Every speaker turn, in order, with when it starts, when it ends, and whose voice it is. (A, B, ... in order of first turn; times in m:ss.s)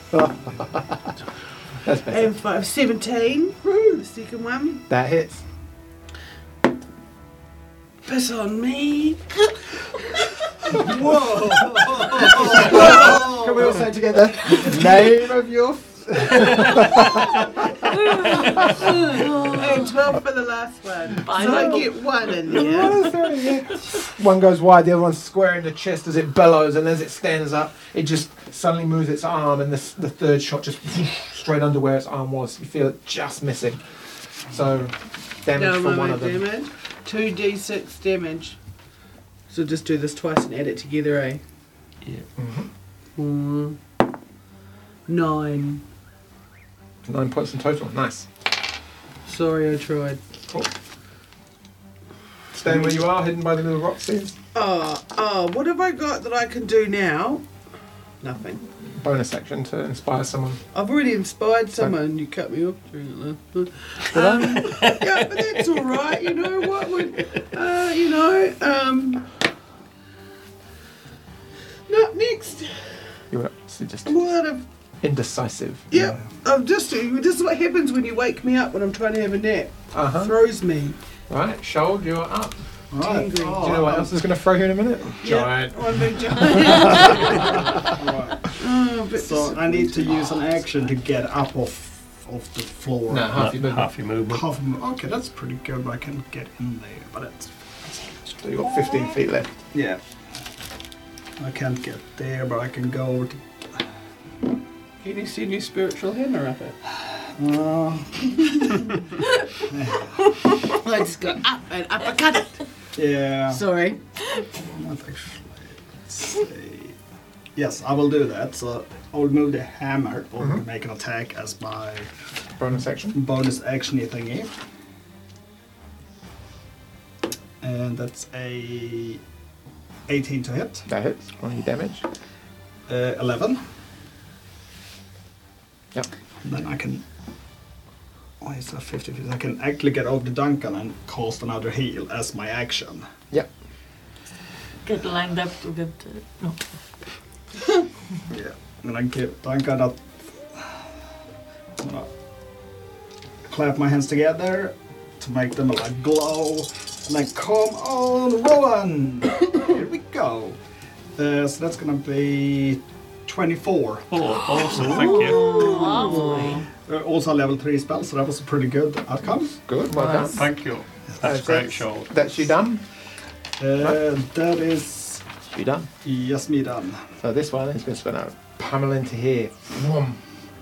0:00.1-0:01.1 A
0:01.8-0:02.3 A
0:02.1-0:04.8 B
0:04.9-0:05.4 A
0:08.0-0:13.7 B
0:10.7-0:13.8 C
0:12.4-0:19.6 A
0:17.9-0:23.1 B
0:19.2-0:19.9 D
0:21.2-0:21.9 D
0:21.4-0:33.8 A
0:34.4-0:36.4 A
0:35.5-0:38.6 B
0:39.5-0:41.4 B
0:42.4-0:42.7 A
0:43.2-0:43.8 B
0:45.1-0:45.8 B
0:47.0-0:48.3 A
0:49.2-0:50.2 B
0:52.5-0:54.4 A
0:54.5-0:57.4 B
0:58.2-0:58.6 B
0:58.8-1:00.6 A
1:00.7-1:09.3 B
1:04.1-1:04.8 A
1:04.6-1:05.6 E
1:11.9-1:13.2 B
1:13.3-1:14.2 A
1:14.1-1:14.6 B
1:15.0-1:16.0 A
1:15.9-1:21.0 B
1:19.9-1:20.3 A
1:21.3-1:22.5 A
1:22.9-1:24.1 C
1:23.0-1:23.7 B
1:23.6-1:27.8 A
1:25.2-1:27.9 B
1:26.8-1:28.5 C
1:28.5-1:30.3 B
1:29.1-1:33.5 C
1:33.1-1:33.9 A
1:33.3-1:34.4 E
1:34.3-1:37.5 C
1:38.2-1:39.7 A
1:39.7-1:40.0 C
1:41.4-1:43.8 C
1:45.0-1:46.8 B
1:47.2-1:48.6 C
1:49.6-1:50.2 C
1:50.6-1:52.6 B
1:52.9-1:53.6 C
1:53.5-1:54.0 B
1:54.6-1:57.0 C
1:57.5-2:02.1 C
2:02.6-2:03.2 A
2:03.1-2:04.6 C
2:07.6-2:09.2 C
2:10.1-2:10.9 C
2:10.9-2:12.0 A
2:12.9-2:13.6 C
2:16.4-2:17.0 C
2:18.4-2:23.0 C
2:24.8-2:26.7 D
2:28.3-2:30.8 C
2:31.8-2:32.1 C
2:33.4-2:40.6 C
2:41.2-2:44.2 C
2:44.1-2:45.8 E
2:44.7-2:49.5 C
2:44.8-2:46.6 D
2:44.9-2:46.6 B
2:49.6-2:50.4 A
2:49.9-2:50.4 D
2:50.3-2:52.1 E
2:51.2-2:52.8 A
2:53.6-2:55.2 C
2:55.5-2:55.9 A
2:56.0-2:57.1 C
2:57.2-3:00.2 A